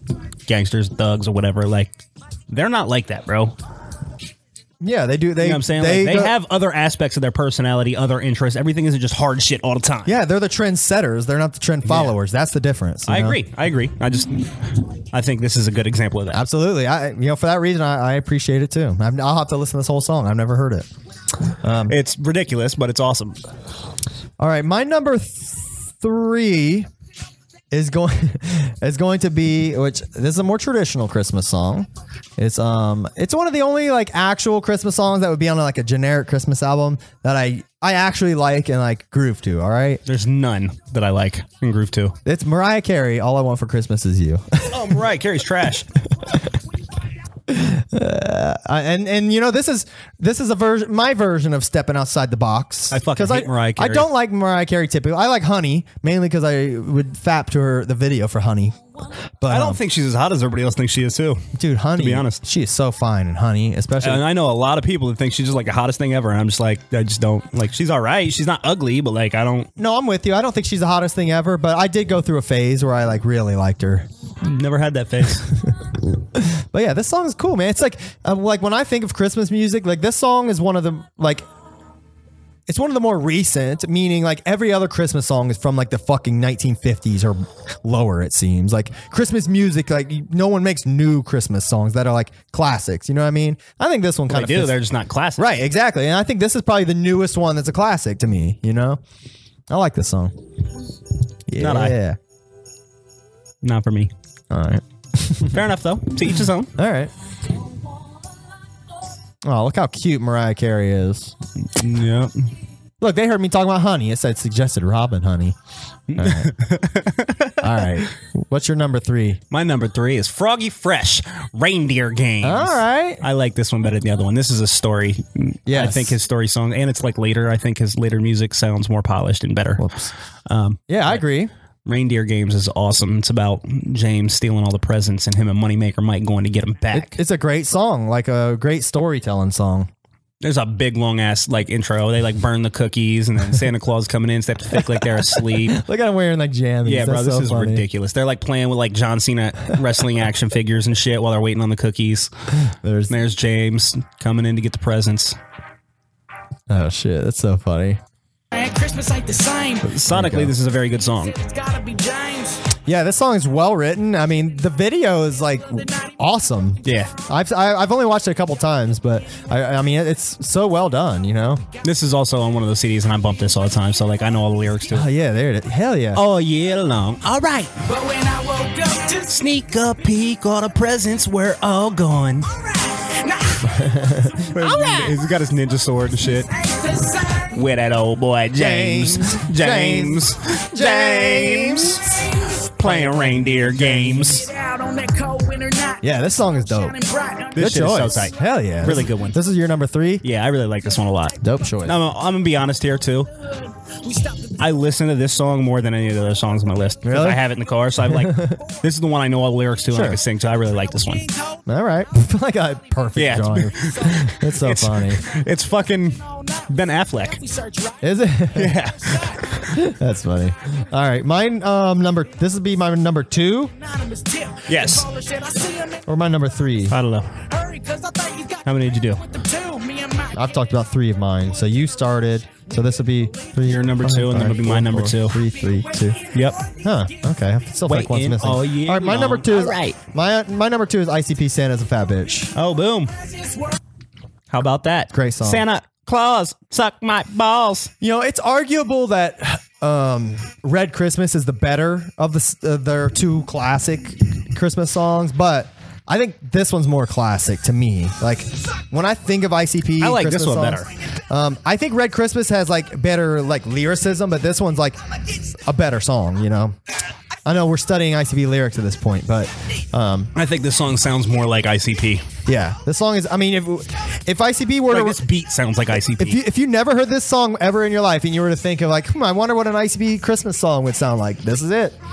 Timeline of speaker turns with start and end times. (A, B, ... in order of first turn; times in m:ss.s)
0:00.5-0:01.9 A
0:02.5-0:03.6 A
0:04.8-0:06.3 B
0:05.4-0:10.2 A
0:10.0-0:13.4 B
0:11.9-0:12.1 A
0:13.1-0:16.4 A
0:16.3-0:20.9 B
0:21.6-0:22.0 B
0:21.9-0:23.4 A
0:24.4-0:26.9 B
0:27.7-0:40.0 B
0:40.1-0:42.2 A
0:42.3-0:45.0 B
0:44.7-0:45.9 A
0:47.5-0:58.8 B
0:52.9-0:54.1 A
0:59.4-0:59.8 B
0:59.5-1:02.4 A
1:01.6-1:04.2 B
1:04.0-1:09.7 A
1:09.8-1:14.1 B
1:14.4-1:15.5 A
1:15.6-1:21.4 B
1:22.7-1:34.8 B
1:34.3-1:35.4 A
1:35.4-1:39.0 B
1:39.7-1:40.3 B
1:41.5-1:42.2 B
1:41.6-1:42.0 A
1:43.6-1:44.1 A
1:44.5-1:45.6 B
1:45.5-1:46.7 A
1:46.8-1:47.1 B
1:49.4-1:51.4 B
1:51.7-1:52.5 A
1:53.0-1:55.6 B
1:56.1-1:58.0 A
1:56.2-1:56.5 B
1:57.6-1:59.4 B
1:59.5-2:09.9 A
2:02.4-2:03.2 B
2:05.7-2:06.2 B
2:09.8-2:10.1 B
2:10.5-2:11.2 A
2:10.9-2:11.5 B
2:11.9-2:17.2 A
2:16.9-2:19.9 B
2:20.4-2:25.8 A
2:24.9-2:27.8 B
2:26.8-2:32.3 A
2:32.6-2:33.1 B
2:33.1-2:35.4 A
2:36.7-2:38.0 B
2:38.5-2:39.9 C
2:39.8-2:41.4 A
2:39.8-2:40.5 B
2:41.4-2:42.6 C
2:42.8-2:51.6 B
2:46.8-2:47.1 A
2:51.8-2:55.1 A
2:54.9-2:56.2 B
2:56.1-2:57.7 A
2:57.9-2:59.3 C
2:59.2-3:02.5 A
3:02.9-3:03.8 C
3:03.7-3:04.5 B
3:04.5-3:06.5 A
3:04.6-3:05.2 C
3:06.5-3:07.6 C
3:07.5-3:14.5 A
3:08.6-3:12.2 B
3:12.8-3:13.7 B
3:14.0-3:17.6 C
3:16.0-3:17.0 B
3:17.5-3:19.4 A
3:17.6-3:20.2 B
3:20.2-3:23.3 A
3:21.4-3:22.0 B
3:23.9-3:24.5 C
3:24.6-3:31.3 A
3:27.0-3:27.4 B
3:28.0-3:28.6 B
3:29.9-3:30.2 B
3:31.7-3:35.2 B
3:33.2-3:37.4 A
3:37.4-3:38.0 C
3:38.0-3:38.8 B
3:38.5-3:39.7 A
3:39.6-3:43.8 B
3:43.9-3:46.0 C
3:44.7-3:45.1 A
3:46.1-3:47.0 B
3:46.9-3:47.3 A
3:47.5-3:48.7 C
3:48.6-3:49.2 A
3:49.2-3:50.4 C
3:50.3-3:56.2 B
3:53.6-3:55.4 A
3:56.3-3:56.7 A
3:56.8-4:02.5 B
3:57.9-4:00.0 A
4:02.6-4:03.1 A
4:04.5-4:07.9 A
4:05.1-4:05.6 B
4:08.0-4:25.0 B
4:20.0-4:20.9 A
4:25.7-4:26.8 B
4:27.4-4:30.3 B
4:30.4-4:32.3 A
4:32.5-4:35.2 B
4:34.9-4:36.4 A
4:36.2-4:42.0 B